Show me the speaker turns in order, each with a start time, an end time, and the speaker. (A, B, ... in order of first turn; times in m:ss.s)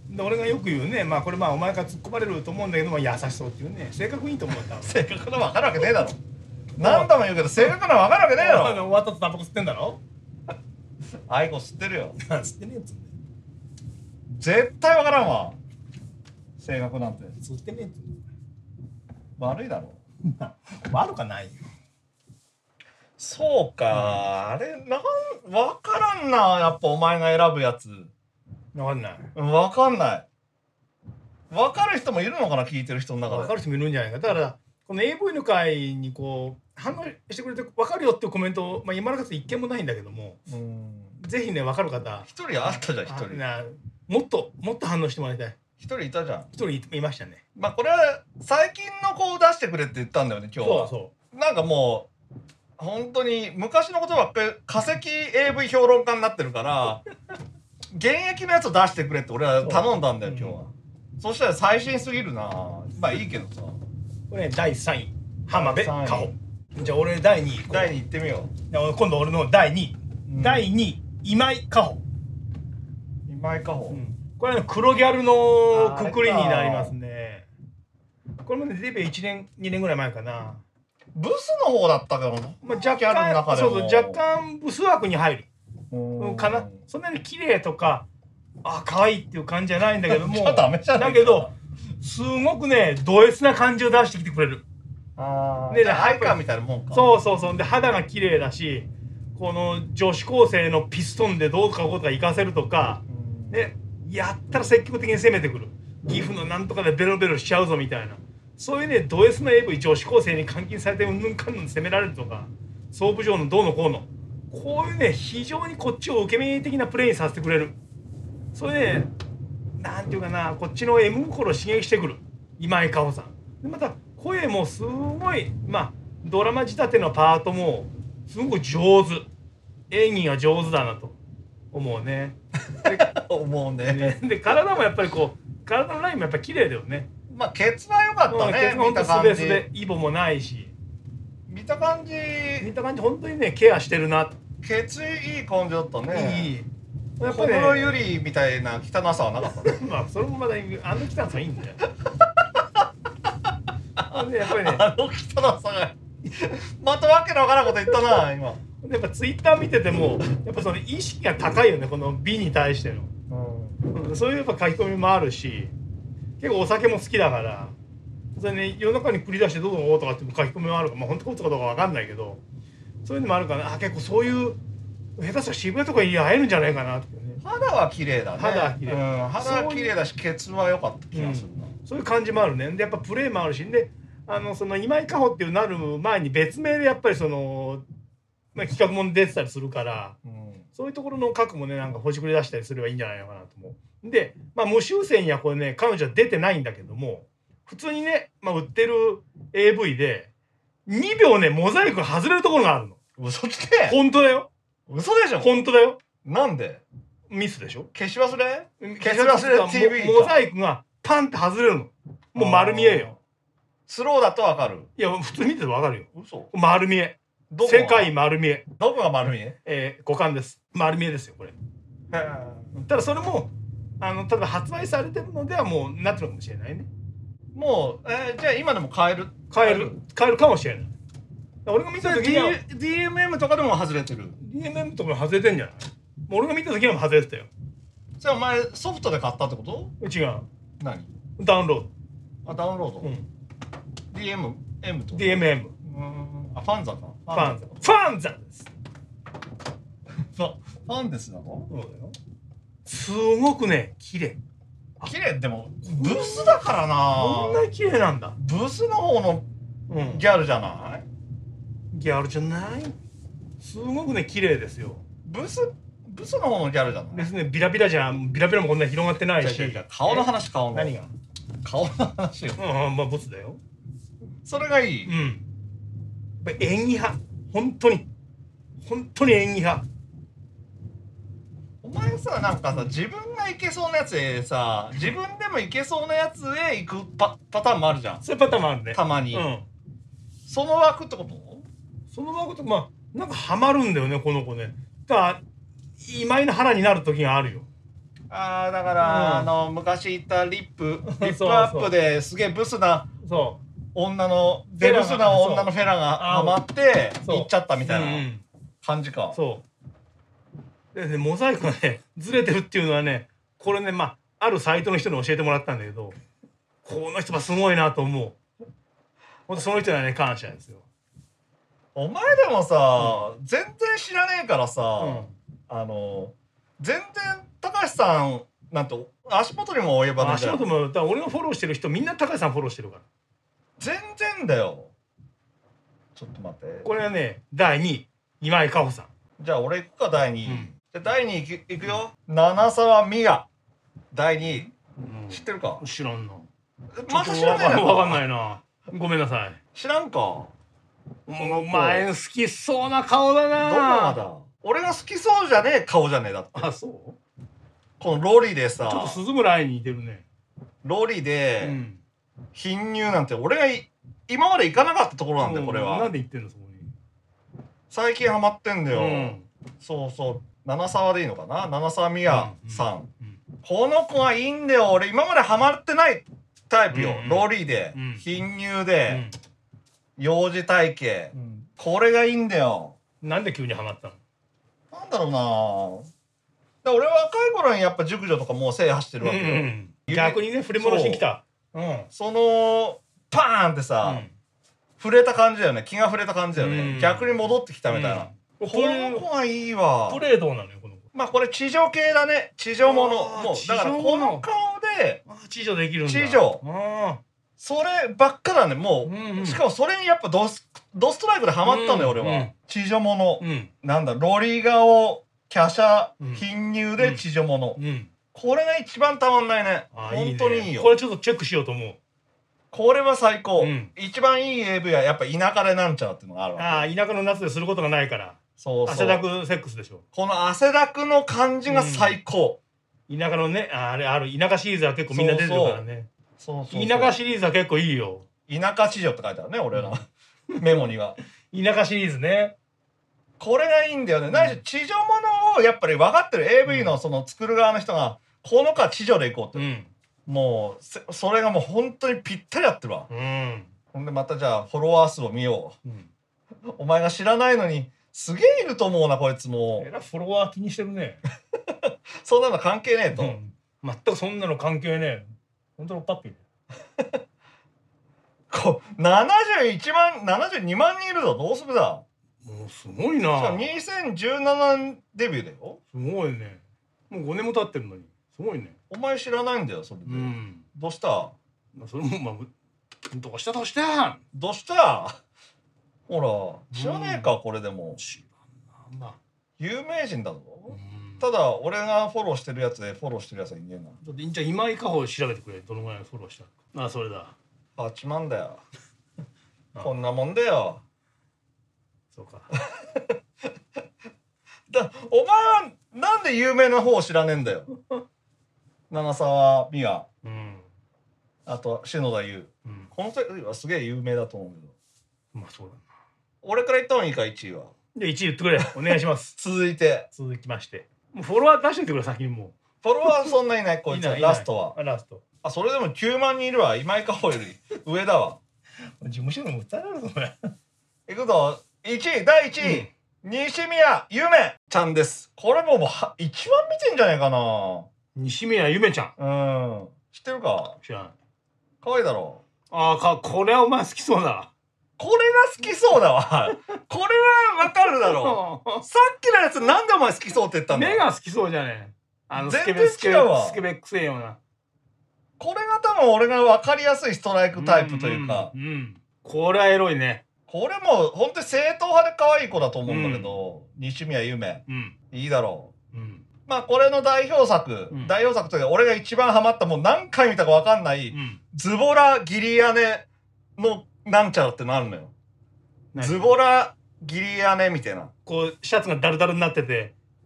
0:00.1-0:05.0 A
0:04.8-0:06.2 B
0:06.8-0:08.9 B
0:06.8-0:07.8 A
0:08.4-0:10.0 A
0:11.3-0:12.2 B
0:12.2-0:13.1 A
0:14.3-0:15.6 B
0:16.6-0:17.4 B
0:17.4-0:18.2 A
0:19.4-0:20.0 B
0:20.3-0:21.7 A
0:23.2-0:28.1 B
0:23.9-0:24.2 A
0:28.7-0:29.3 A
0:29.4-0:30.3 B
0:31.5-0:33.5 B
0:33.3-0:40.4 A
0:40.5-0:41.2 B
0:41.2-0:45.6 A
0:42.2-0:43.4 B
0:45.8-0:46.5 B
0:46.5-0:47.4 A
0:47.6-0:52.1 B
0:50.6-0:51.1 A
0:52.8-0:57.0 B
0:57.9-1:03.8 B
0:59.6-1:00.6 A
1:04.3-1:08.0 A
1:05.5-1:06.3 B
1:07.7-1:08.5 B
1:08.7-1:12.0 A
1:10.3-1:10.7 B
1:13.3-1:14.0 B
1:13.9-1:17.5 A
1:15.7-1:17.0 B
1:18.4-1:20.6 A
1:21.1-1:24.2 B
1:22.6-1:25.5 A
1:25.9-1:26.7 B
1:26.2-1:28.0 A
1:28.6-1:31.5 A
1:30.1-1:31.5 B
1:32.0-1:34.6 A
1:35.2-1:37.1 B
1:35.7-1:36.4 A
1:36.9-1:57.8 A
1:43.1-1:43.6 B
1:58.5-1:59.1 A
1:59.8-2:09.3 A
2:09.9-2:11.2 A
2:11.7-2:13.1 A
2:12.8-2:14.2 B
2:13.8-2:17.1 A
2:17.3-2:19.7 B
2:18.3-2:20.7 A
2:21.5-2:22.7 B
2:22.6-2:24.4 A
2:24.6-2:26.6 B
2:26.1-2:26.7 A
2:27.2-2:28.0 A
2:27.2-2:29.8 B
2:29.7-2:31.8 A
2:34.0-2:38.6 B
2:34.1-2:34.8 A
2:38.8-2:43.1 A
2:43.3-2:43.8 B
2:43.9-2:45.7 A
2:46.4-2:47.8 A
2:48.4-2:52.4 A
2:53.0-2:54.6 A
2:55.2-2:57.4 A
2:57.4-3:01.7 B
2:58.4-2:59.9 A
3:01.1-3:07.8 A
3:08.6-3:10.2 A
3:10.2-3:10.6 B
3:10.8-3:20.3 A
3:20.9-3:23.0 A
3:23.2-3:24.0 B
3:23.9-3:24.5 A
3:24.9-3:25.6 B
3:25.4-3:26.0 A
3:26.2-3:26.8 B
3:27.3-3:27.9 A
3:28.0-3:30.5 B
3:28.8-3:33.1 A
3:32.4-3:33.2 B
3:33.9-3:34.9 B
3:35.0-3:38.6 A
3:36.2-3:36.5 B
3:37.5-3:38.1 B
3:38.8-3:39.6 B
3:39.3-3:41.5 A
3:42.1-3:42.8 B
3:42.7-3:46.9 A
3:47.5-3:50.0 B
3:49.5-3:50.9 A
3:51.6-3:52.6 A
3:52.0-3:54.4 B
3:54.4-3:57.5 A
3:58.2-3:59.9 B
4:00.0-4:00.5 A
4:00.8-4:01.1 B
4:01.4-4:01.9 A
4:02.4-4:03.2 B
4:04.1-4:07.9 B
4:05.1-4:05.7 A
4:07.3-4:08.7 A
4:10.3-4:11.7 B
4:11.7-4:12.2 A
4:12.9-4:14.4 A
4:15.0-4:17.6 B
4:15.8-4:18.4 A
4:18.4-4:19.5 B
4:19.9-4:20.2 A
4:20.0-4:21.0 B
4:21.9-4:23.0 A
4:23.6-4:25.0 A
4:25.2-4:27.3 B
4:27.1-4:31.1 A
4:29.4-4:31.0 B
4:31.6-4:32.6 B
4:32.6-4:33.6 A
4:34.4-4:35.1 B
4:35.1-4:35.4 A
4:36.4-4:38.0 A
4:38.8-4:39.8 A
4:41.8-4:48.2 B
4:48.2-4:49.6 A
4:48.9-4:49.5 B
4:50.4-4:51.7 B
4:52.1-4:55.4 A
4:56.0-4:57.7 A
4:58.3-5:03.1 B
4:59.0-4:59.5 A
5:01.1-5:01.9 A
5:03.2-5:03.6 A
5:04.0-5:08.3 B
5:04.7-5:06.6 A
5:07.2-5:08.4 A
5:08.8-5:09.4 B
5:09.3-5:09.6 A
5:10.9-5:16.2 A
5:16.8-5:18.4 A
5:19.5-5:20.8 A
5:22.0-5:30.7 B
5:23.0-5:23.3 A
5:25.0-5:25.3 A
5:30.2-5:33.0 A
5:33.8-5:34.9 B
5:36.2-5:36.9 B
5:36.8-5:39.1 A
5:39.4-5:43.5 B
5:40.5-5:40.7 A
5:44.1-5:44.7 B
5:45.0-5:46.5 A
5:45.3-5:45.8 B
5:47.0-5:48.2 B
5:47.1-5:49.6 A
5:49.8-5:50.5 B
5:51.3-5:54.2 A
5:51.4-5:52.1 B
5:53.6-5:56.7 B
5:56.5-5:57.2 A
5:58.0-5:59.2 B
5:58.8-6:00.2 A
6:00.8-6:01.8 B
6:01.6-6:02.0 A
6:02.6-6:06.1 B
6:05.4-6:06.9 A
6:07.9-6:13.1 B
6:08.9-6:09.4 A
6:12.3-6:13.4 A
6:13.6-6:19.2 B
6:16.9-6:18.2 A
6:19.1-6:19.4 A
6:20.2-6:23.0 B
6:21.4-6:21.6 A
6:23.2-6:24.2 A
6:24.9-6:26.1 B
6:26.8-6:31.3 B
6:29.2-6:32.1 A
6:32.1-6:34.2 B
6:34.0-6:34.3 A
6:35.0-6:40.2 B
6:36.6-6:39.2 A
6:40.1-6:41.0 A
6:41.1-6:45.2 B
6:42.8-6:44.4 A
6:45.3-6:47.2 A
6:46.0-6:46.6 B
6:47.6-6:57.8 B
6:49.0-6:49.6 A
6:51.6-6:52.5 A
6:53.4-6:53.7 A
6:56.2-6:56.4 A
6:57.8-6:58.1 A
6:58.3-7:01.0 B
6:59.9-7:02.0 A
7:02.7-7:06.9 B
7:03.6-7:03.9 A
7:06.6-7:10.0 A
7:08.6-7:09.2 B
7:10.1-7:12.6 B
7:11.7-7:12.2 A
7:13.1-7:16.1 A
7:15.1-7:15.8 B
7:16.4-7:17.2 B
7:16.7-7:18.2 A
7:18.5-7:20.1 B
7:19.7-7:20.0 A
7:20.6-7:21.2 B
7:20.6-7:20.8 A
7:21.5-7:22.5 A
7:23.4-7:29.6 B
7:24.3-7:24.6 A
7:26.6-7:27.0 A
7:29.5-7:29.9 A
7:30.3-7:33.1 B
7:33.1-7:33.7 A
7:33.9-7:35.8 B
7:36.7-7:39.9 B
7:39.8-7:41.2 A
7:41.7-7:43.4 B
7:43.1-7:46.4 A
7:48.5-7:52.0 B
7:52.4-7:53.7 A
7:53.4-7:55.8 B
7:55.9-7:58.7 A
7:58.9-8:01.3 B
8:00.1-8:00.6 A
8:01.7-8:02.5 A
8:03.1-8:04.2 A
8:04.3-8:05.2 B
8:06.1-8:08.0 B
8:06.7-8:07.4 A
8:08.0-8:09.2 A
8:09.6-8:14.0 B
8:10.7-8:11.2 A
8:14.0-8:17.4 A
8:17.8-8:18.6 B
8:19.8-8:20.8 B
8:22.1-8:22.5 A
8:22.7-8:23.0 B
8:24.7-8:27.7 B
8:28.9-8:30.1 B
8:30.2-8:30.7 A
8:31.5-8:34.7 B
8:35.3-8:35.9 A
8:36.4-8:37.7 B
8:38.0-8:39.4 A
8:39.4-8:40.1 B
8:40.1-8:42.6 A
8:42.8-8:44.8 B
8:43.9-8:45.2 A
8:45.4-8:48.4 B
8:49.0-8:50.3 A
8:51.1-8:57.9 B
8:52.6-8:52.9 A
8:58.2-8:59.1 A
8:59.2-9:00.8 B
9:00.8-9:01.2 A
9:01.8-9:02.4 B
9:02.7-9:04.5 A
9:05.0-9:11.0 B
9:08.0-9:08.8 A
9:10.7-9:14.4 A
9:12.3-9:13.6 B
9:15.4-9:18.5 B
9:17.5-9:20.2 A
9:20.5-9:25.7 B
9:22.9-9:23.4 A
9:24.7-9:24.9 A
9:25.9-9:26.2 A
9:26.5-9:33.0 B
9:27.9-9:28.2 A
9:31.1-9:31.4 A
9:33.6-9:35.1 B
9:35.9-9:36.3 A
9:36.0-9:38.1 B
9:38.3-9:39.9 A